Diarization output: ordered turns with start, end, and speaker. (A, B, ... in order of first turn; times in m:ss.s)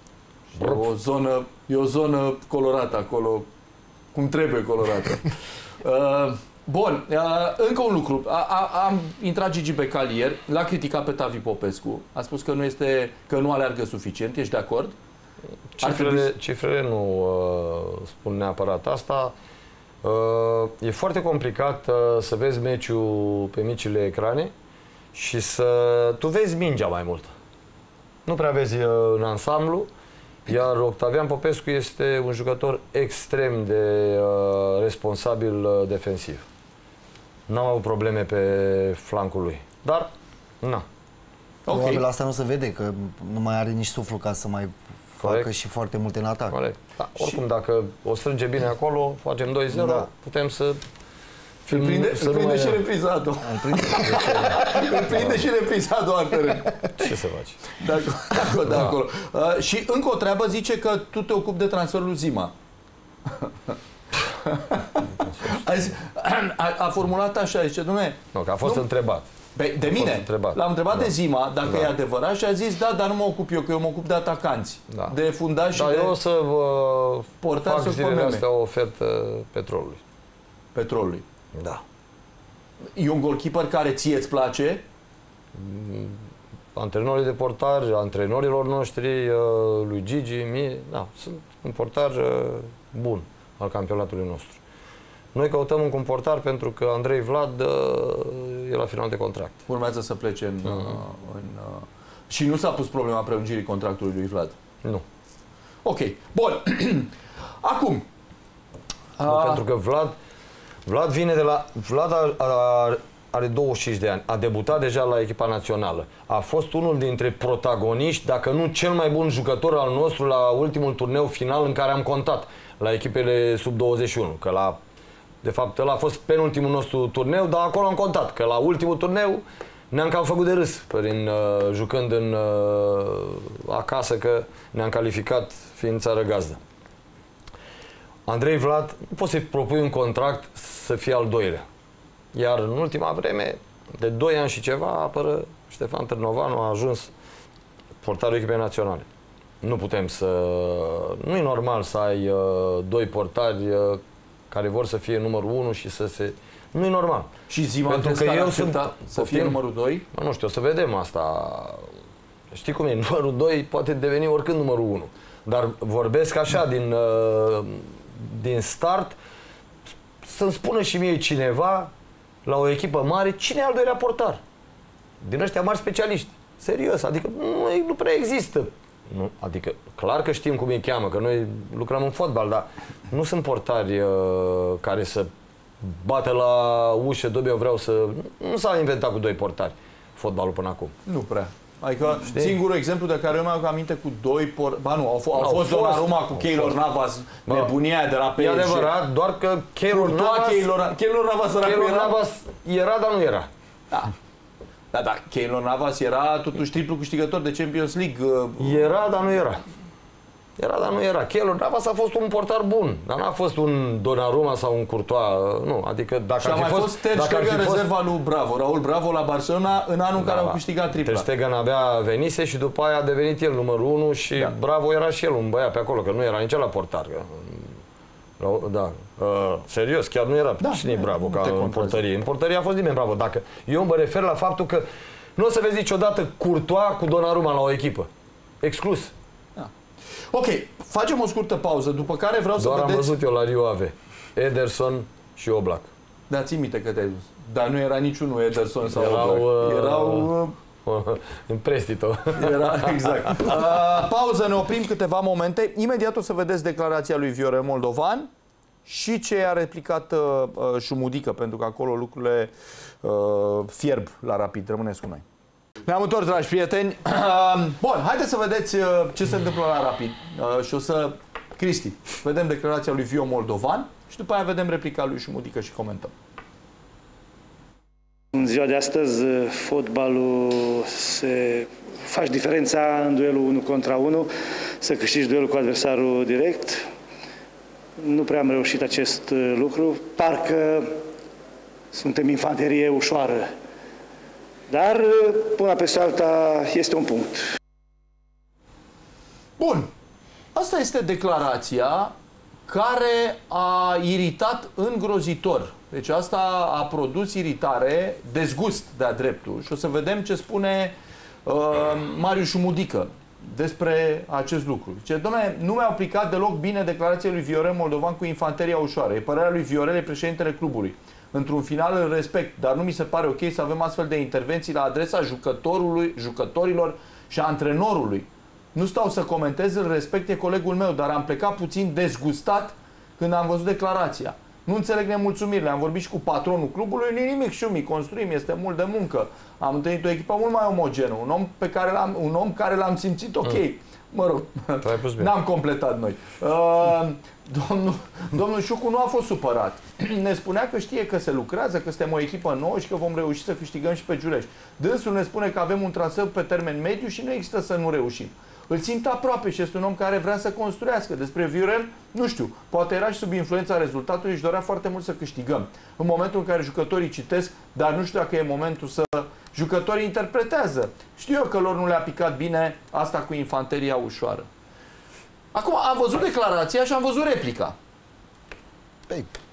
0:00.5-0:03.5 A
0:00.6-0:00.8 B
0:04.1-0:15.0 A
0:15.8-0:19.3 B
0:15.8-0:16.3 A
0:20.0-0:24.5 B
0:25.1-0:27.3 B
0:28.3-0:29.9 B
0:30.5-0:36.4 B
0:37.5-0:40.1 B
0:41.7-0:42.0 A
0:41.7-0:46.6 C
0:45.2-0:45.5 B
0:46.5-0:50.8 B
0:49.7-0:50.1 C
0:51.7-0:52.8 B
0:51.7-0:56.8 A
0:53.4-0:54.7 C
0:54.0-0:55.4 B
0:57.0-0:57.7 B
0:57.8-1:02.5 A
0:58.6-0:59.0 B
1:03.3-1:03.8 A
1:04.4-1:08.9 A
1:05.2-1:05.6 B
1:08.3-1:09.3 B
1:09.6-1:16.1 A
1:09.9-1:11.1 B
1:11.7-1:11.9 B
1:14.9-1:15.2 B
1:15.7-1:20.0 B
1:17.4-1:18.4 A
1:20.8-1:21.2 A
1:21.5-1:21.8 B
1:23.0-1:24.8 A
1:25.6-1:26.2 B
1:26.8-1:34.6 B
1:35.4-1:39.6 B
1:39.7-1:44.6 A
1:40.7-1:41.0 B
1:45.8-1:48.1 A
1:49.2-1:49.6 A
1:49.2-1:50.2 B
1:50.9-2:04.8 B
2:05.4-2:16.6 B
2:18.3-2:21.6 B
2:22.3-2:27.1 B
2:28.0-2:29.1 B
2:29.6-2:37.3 B
2:37.5-2:40.0 A
2:37.9-2:39.6 B
2:40.1-2:41.9 B
2:42.5-2:49.2 B
2:50.2-2:51.9 B
2:52.5-2:54.4 B
2:55.2-3:05.3 B
3:05.8-3:10.9 B
3:11.1-3:18.9 A
3:12.3-3:12.6 B
3:15.4-3:16.8 B
3:17.5-3:17.7 B
3:18.4-3:20.7 B
3:19.9-3:22.2 A
3:21.6-3:23.5 B
3:24.9-3:29.0 A
3:28.6-3:29.6 B
3:30.6-3:37.9 B
3:36.4-3:41.2 A
3:40.2-3:47.8 B
3:48.4-3:58.1 B
3:50.6-3:52.0 A
3:58.6-3:59.1 B
3:59.6-4:03.1 A
4:02.6-4:05.9 B
4:06.3-4:10.6 A
4:08.9-4:13.6 B
4:12.4-4:18.3 A
4:18.9-4:22.5 A
4:23.0-4:25.2 A
4:25.9-4:36.1 A
4:38.3-4:44.3 D
4:44.8-4:46.9 D
4:48.0-4:51.0 D
4:51.9-4:53.5 D
4:54.7-4:57.4 D
4:59.6-4:59.9 A
5:00.6-5:02.1 A
5:02.7-6:14.5 A
5:44.8-5:45.3 B
6:15.5-6:17.8 A